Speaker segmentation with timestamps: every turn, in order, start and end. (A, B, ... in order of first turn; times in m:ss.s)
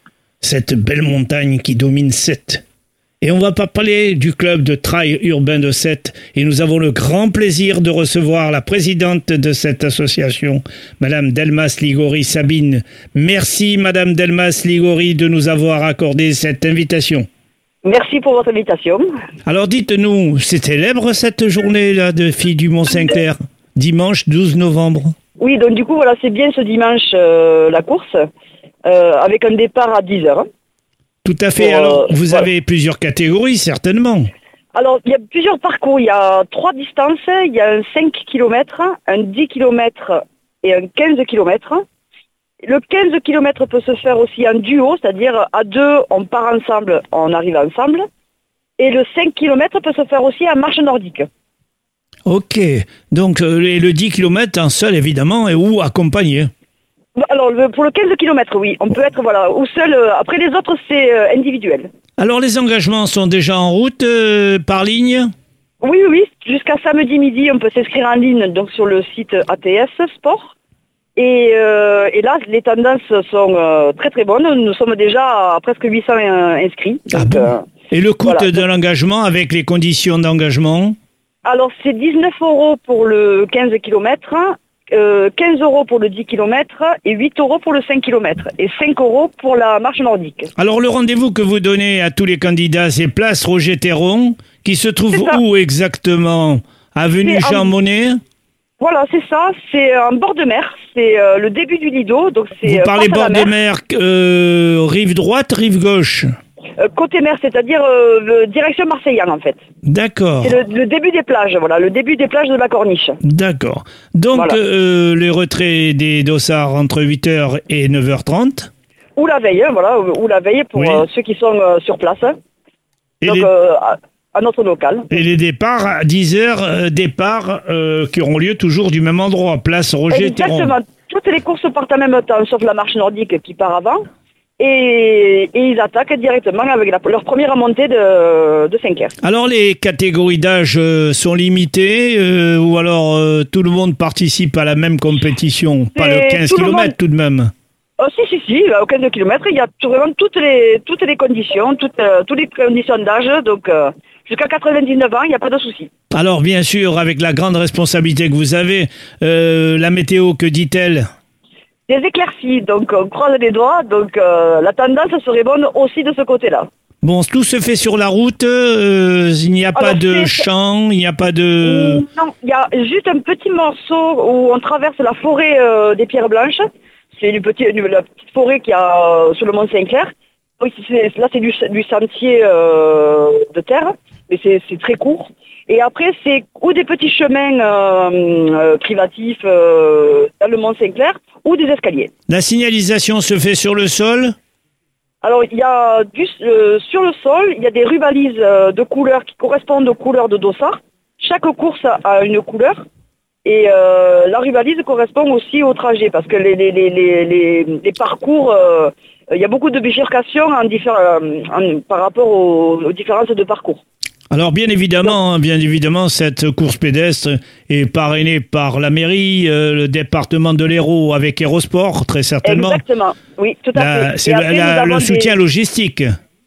0:00.4-0:02.6 A
0:03.2-0:17.3 A
0:17.8-0:19.1 B
0:19.4-0:25.1 A
0:25.4-0:28.2 B
0:28.8-0:30.4 B
0:31.2-0:34.3 A
0:31.6-0:32.5 B
0:34.7-0:41.8 B
0:42.6-0:48.0 B
0:48.8-0:51.2 B
0:52.2-0:56.5 A
0:57.2-1:01.9 B
1:02.2-1:05.3 A
1:05.8-1:10.5 B
1:11.2-1:17.7 B
1:17.1-1:21.0 A
1:18.2-1:18.6 B
1:21.4-1:30.5 B
1:30.6-1:38.2 A
1:35.1-1:35.4 B
1:37.2-1:37.7 B
1:38.8-1:43.5 B
1:42.6-1:46.3 A
1:46.8-1:49.6 B
1:49.8-1:50.6 A
1:50.4-1:53.2 B
1:53.2-1:58.7 A
1:54.3-1:54.6 B
1:59.2-2:02.3 B
2:00.8-2:01.0 A
2:03.2-2:03.5 A
2:03.2-2:05.2 B
2:05.1-2:10.7 A
2:10.1-2:14.0 B
2:14.6-2:19.1 B
2:19.2-2:27.5 A
2:26.0-2:26.9 B
2:28.0-2:35.9 B
2:36.1-2:41.0 A
2:41.9-2:46.7 B
2:47.0-2:52.0 A
2:49.7-2:50.4 B
2:51.6-2:56.6 B
2:57.2-3:12.1 B
3:12.3-3:14.3 A
3:15.2-3:22.8 B
3:23.4-3:33.8 B
3:34.3-3:42.8 A
3:42.4-3:45.3 B
3:43.8-3:46.1 A